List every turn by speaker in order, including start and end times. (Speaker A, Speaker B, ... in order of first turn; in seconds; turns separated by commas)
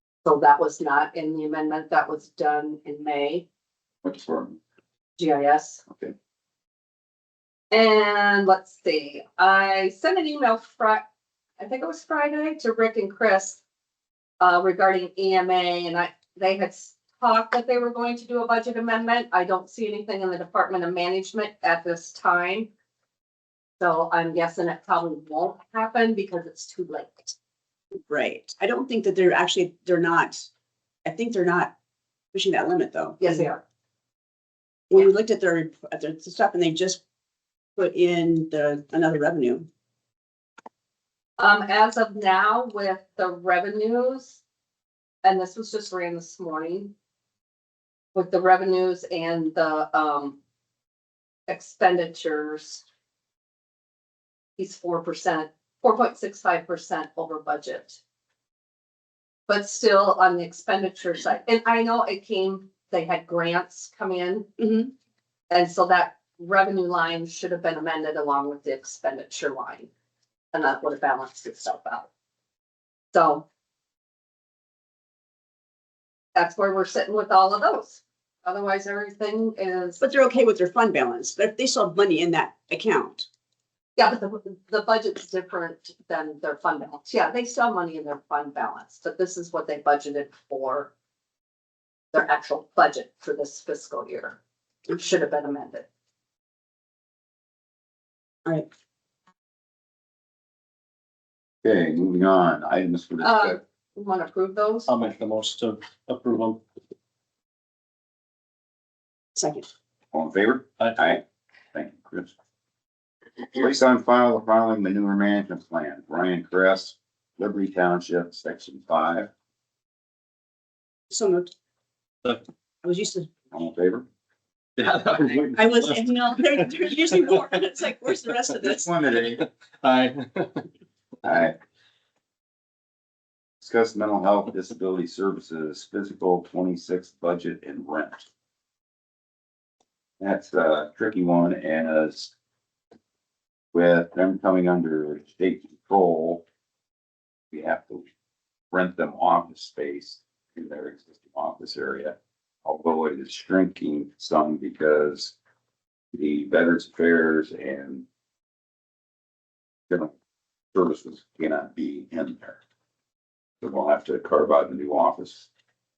Speaker A: 0.2-3.5, Speaker B: 4.0-4.6, Speaker A: 5.2-5.8, Speaker A: 7.7-11.0, Speaker A: 11.6-13.6, Speaker A: 14.4-22.7, Speaker A: 23.8-27.4, Speaker C: 28.1-30.5, Speaker C: 31.1-31.7, Speaker C: 32.3-33.5, Speaker A: 33.2-33.6, Speaker C: 34.9-37.0, Speaker C: 37.8-39.7, Speaker A: 41.4-44.4, Speaker A: 45.2-46.9, Speaker A: 48.1-50.4, Speaker A: 51.5-52.8, Speaker A: 54.6-58.0, Speaker A: 59.5-64.7, Speaker A: 65.5-69.9, Speaker A: 70.5-72.1, Speaker A: 73.1-73.5, Speaker A: 76.3-80.0, Speaker C: 80.0-83.3, Speaker A: 84.0-90.9, Speaker A: 92.1-94.4, Speaker A: 94.9-95.9, Speaker B: 101.6-103.6, Speaker A: 103.2-104.9, Speaker D: 104.9-106.6, Speaker C: 109.4-109.7, Speaker B: 110.1-111.2, Speaker B: 111.7-112.3, Speaker B: 113.5-119.3, Speaker C: 121.1-121.5, Speaker C: 122.8-123.3, Speaker B: 123.5-124.0, Speaker D: 124.8-126.1, Speaker C: 125.5-128.8, Speaker B: 128.6-129.4, Speaker D: 129.4-130.7, Speaker B: 131.2-131.6, Speaker B: 133.6-138.3, Speaker B: 140.2-142.3, Speaker B: 143.7-146.4, Speaker B: 147.5-148.1, Speaker B: 148.7-155.3, Speaker B: 156.1-158.1, Speaker B: 160.7-162.6, Speaker B: 163.6-165.5